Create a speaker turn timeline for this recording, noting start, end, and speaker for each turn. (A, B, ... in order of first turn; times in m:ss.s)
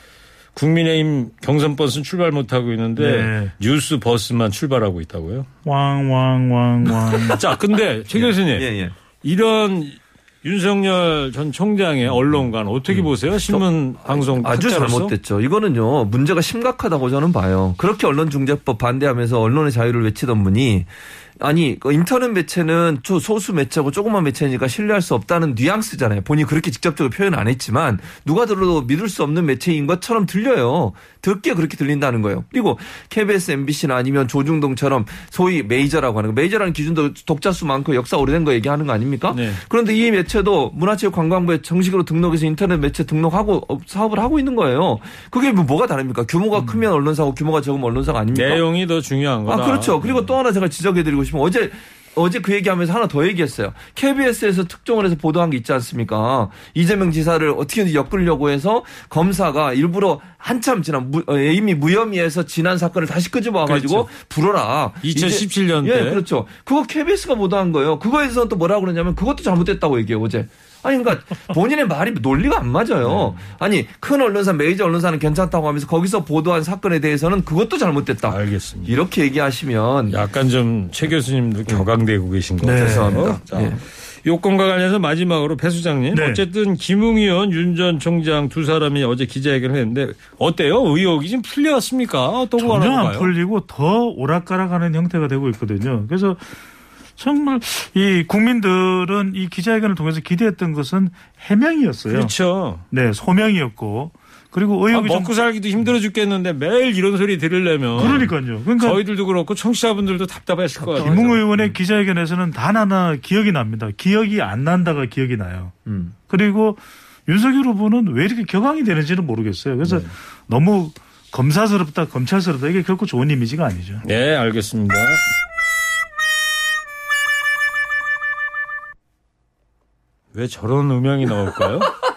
0:00.5-0:05.5 A
0:03.0-0:03.5 B
0:05.6-0:07.5 B
0:07.3-0:08.7 A
0:08.1-0:08.9 C
0:09.2-0:15.1 A
0:12.9-0:48.6 C
0:39.3-0:39.6 A
0:48.3-0:50.3 A
0:49.5-1:20.2 C
1:03.6-1:04.1 A
1:05.0-1:06.2 A
1:13.0-1:13.4 A
1:18.3-1:18.9 A
1:20.1-1:33.3 A
1:22.6-1:23.3 B
1:22.7-1:23.8 C
1:26.1-1:26.4 B
1:32.6-1:36.5 B
1:37.2-1:42.3 B
1:42.1-1:42.8 A
1:42.9-1:45.3 B
1:44.9-1:51.4 A
1:48.0-1:49.0 B
1:50.8-1:51.6 C
1:51.0-1:55.7 B
1:55.8-1:56.1 C
1:56.3-2:04.0 B
1:59.8-2:00.1 A
2:04.0-2:05.2 A
2:10.3-2:11.9 A